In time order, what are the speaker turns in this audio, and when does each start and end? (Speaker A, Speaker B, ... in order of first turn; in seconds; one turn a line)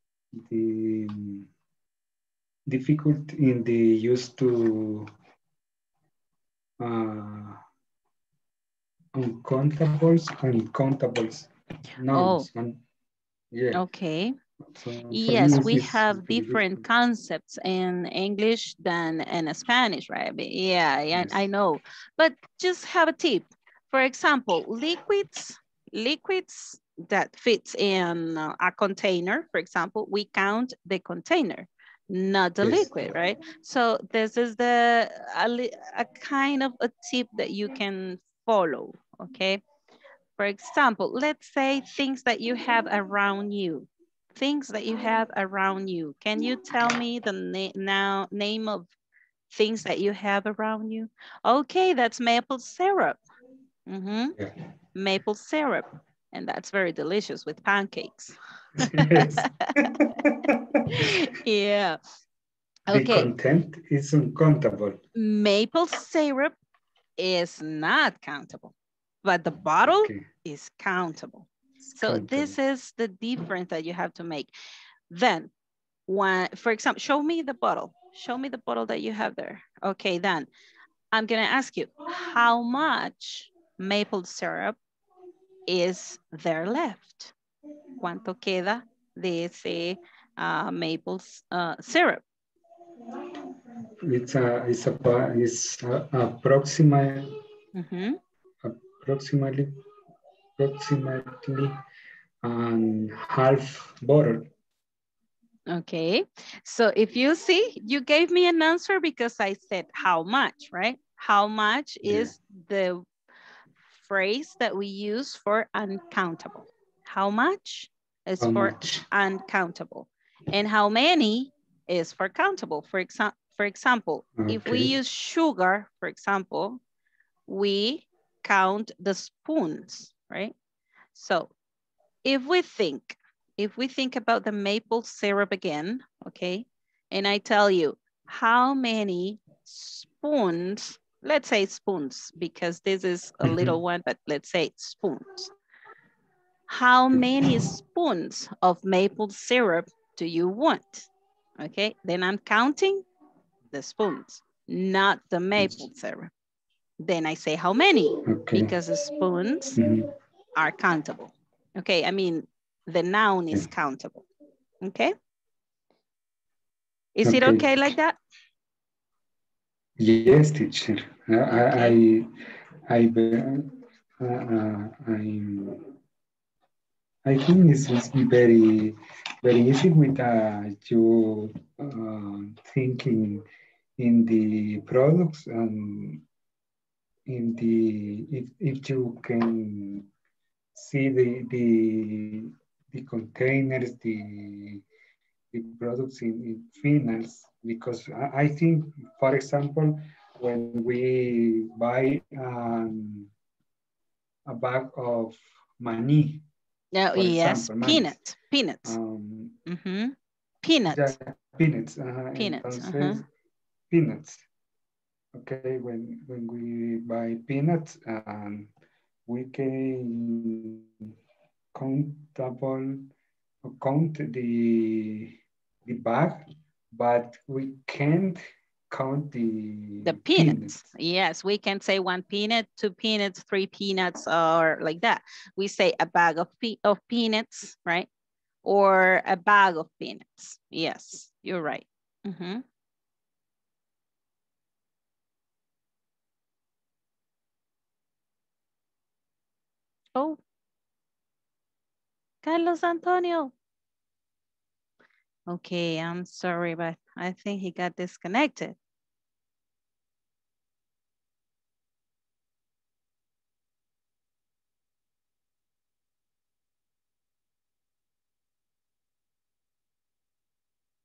Speaker A: 0.3-1.5
Speaker A: 2.7-5.1
Speaker A: 6.8-7.6
Speaker A: 9.2-12.8
Speaker B: 12.1-12.5
Speaker A: 13.5-13.8
Speaker B: 13.7-14.3
Speaker A: 14.7-16.9
Speaker B: 15.1-39.6
Speaker A: 21.1-21.4
Speaker A: 32.6-33.2
Speaker B: 40.4-48.9
Speaker B: 49.5-53.2
Speaker B: 53.9-54.4
Speaker B: 55.0-59.7
Speaker A: 58.8-61.2
Speaker B: 60.9-62.0
Speaker B: 62.9-63.3
Speaker A: 62.9-65.0
Speaker B: 65.2-66.5
Speaker B: 67.2-74.5
Speaker A: 69.9-70.3
Speaker A: 71.9-72.6
Speaker B: 75.1-75.5
Speaker B: 76.1-80.5
Speaker B: 81.1-84.8
Speaker B: 85.7-87.3
Speaker B: 88.0-92.2
Speaker A: 94.0-97.3
Speaker B: 97.8-98.2
Speaker A: 98.6-99.7
Speaker A: 100.6-101.7
Speaker A: 102.4-104.5
Speaker B: 105.7-113.1
Speaker A: 112.0-112.3
Speaker B: 114.0-126.8
Speaker A: 118.4-119.0
Speaker A: 124.4-125.0
Speaker B: 127.5-130.5
Speaker B: 131.1-131.5
Speaker B: 132.2-145.5
Speaker A: 143.4-143.8
Speaker B: 146.7-151.1
Speaker A: 147.1-147.7
Speaker B: 151.6-153.1
Speaker B: 153.7-156.3
Speaker A: 155.6-155.9
Speaker B: 157.0-159.8
Speaker A: 158.3-158.8
Speaker A: 159.8-160.1
Speaker B: 160.6-164.3
Speaker B: 164.8-165.1
Speaker B: 167.2-168.2
Speaker A: 167.2-167.9
Speaker A: 170.0-172.3
Speaker B: 171.5-172.0
Speaker A: 172.9-175.8
Speaker A: 177.3-183.4
Speaker A: 184.0-186.2
Speaker A: 187.3-190.1
Speaker A: 190.8-194.8
Speaker A: 195.5-203.3
Speaker A: 204.5-206.4
Speaker B: 206.9-209.0
Speaker A: 207.1-208.2
Speaker A: 208.8-209.6
Speaker B: 209.7-211.2
Speaker A: 210.9-213.3
Speaker B: 212.4-213.2
Speaker A: 213.9-214.4
Speaker A: 215.3-218.7
Speaker A: 219.3-220.9
Speaker A: 221.8-223.1
Speaker A: 223.7-225.3
Speaker A: 225.9-230.8
Speaker B: 230.0-238.1
Speaker B: 238.7-242.6
Speaker B: 252.4-253.5
Speaker B: 255.5-258.8